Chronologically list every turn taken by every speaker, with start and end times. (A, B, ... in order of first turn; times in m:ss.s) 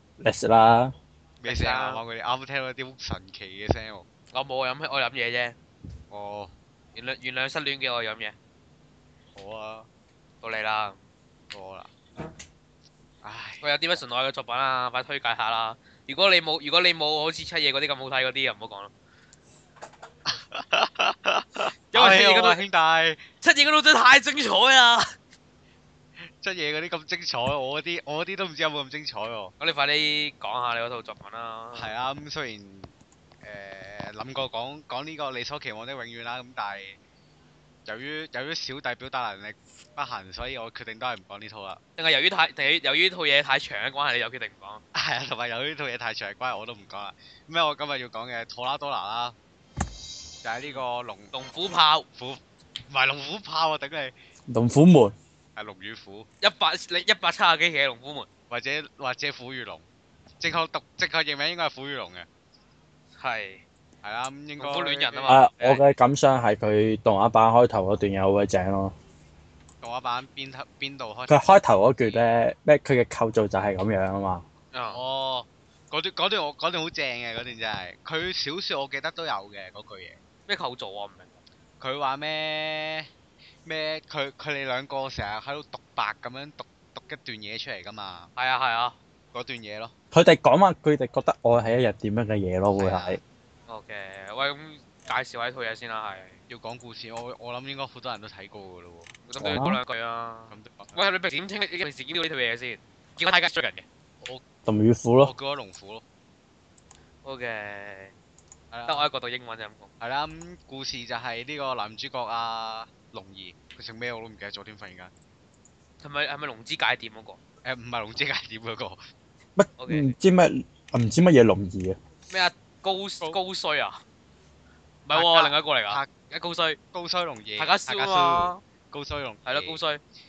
0:00.2-0:00.9 A
0:01.4-0:04.1 B
0:01.4-0:02.0 C
0:04.3-0:05.6 C
0:06.1-0:06.5 B
0:06.9-0:08.3 C
0:09.3-0:09.9 B
0:10.4-0:11.0 C
0:11.5-0:11.9 B
0:13.2-0:13.6 B
0:13.6-0:18.9 C
0:20.3-0:23.2 B
0:21.9-0:22.6 C
0:23.4-0:25.0 C
0:26.4-0:29.5 B
0:29.6-0:31.9 C
0:31.7-0:37.0 B
0:37.8-0:41.8 B
0:42.0-0:44.8 C
0:44.9-0:49.4 B
0:50.4-0:51.3 B
0:50.6-0:52.0 C
0:52.1-0:54.1 B
0:54.5-0:55.1 A
0:55.6-0:56.3 B
0:56.4-0:58.3 C
0:58.5-0:59.8 B
1:00.4-1:02.3 B
1:03.2-1:03.6 C
1:04.0-1:05.3 B
1:04.6-1:05.8 C
1:05.3-1:08.9 A
1:09.8-1:11.4 B
1:11.3-1:14.4 A
1:14.7-1:15.0 C
1:14.9-1:20.2 B
1:20.5-1:21.4 C
1:21.8-1:23.1 B
1:23.6-1:28.3 B
1:28.4-1:28.9 C
1:29.3-1:29.9 B
1:30.1-1:33.2 A
1:33.7-1:36.4 C
1:36.5-1:39.1 B
1:39.3-1:43.8 C
1:39.4-1:39.8 A
1:40.5-1:41.0 B
1:44.6-1:45.3 A
1:45.2-1:46.0 B
1:47.2-1:48.1 C
1:48.7-1:49.1 B
1:48.9-1:49.9 C
1:50.0-1:55.1 B
1:56.0-1:57.4 C
1:57.6-1:59.0 B
1:59.6-2:02.0 A
1:59.8-2:00.1 C
2:02.3-2:04.0 C
2:05.0-2:06.8 C
2:05.1-2:06.1 B
2:06.9-2:09.8 B
2:07.6-2:08.6 C
2:09.4-2:10.0 C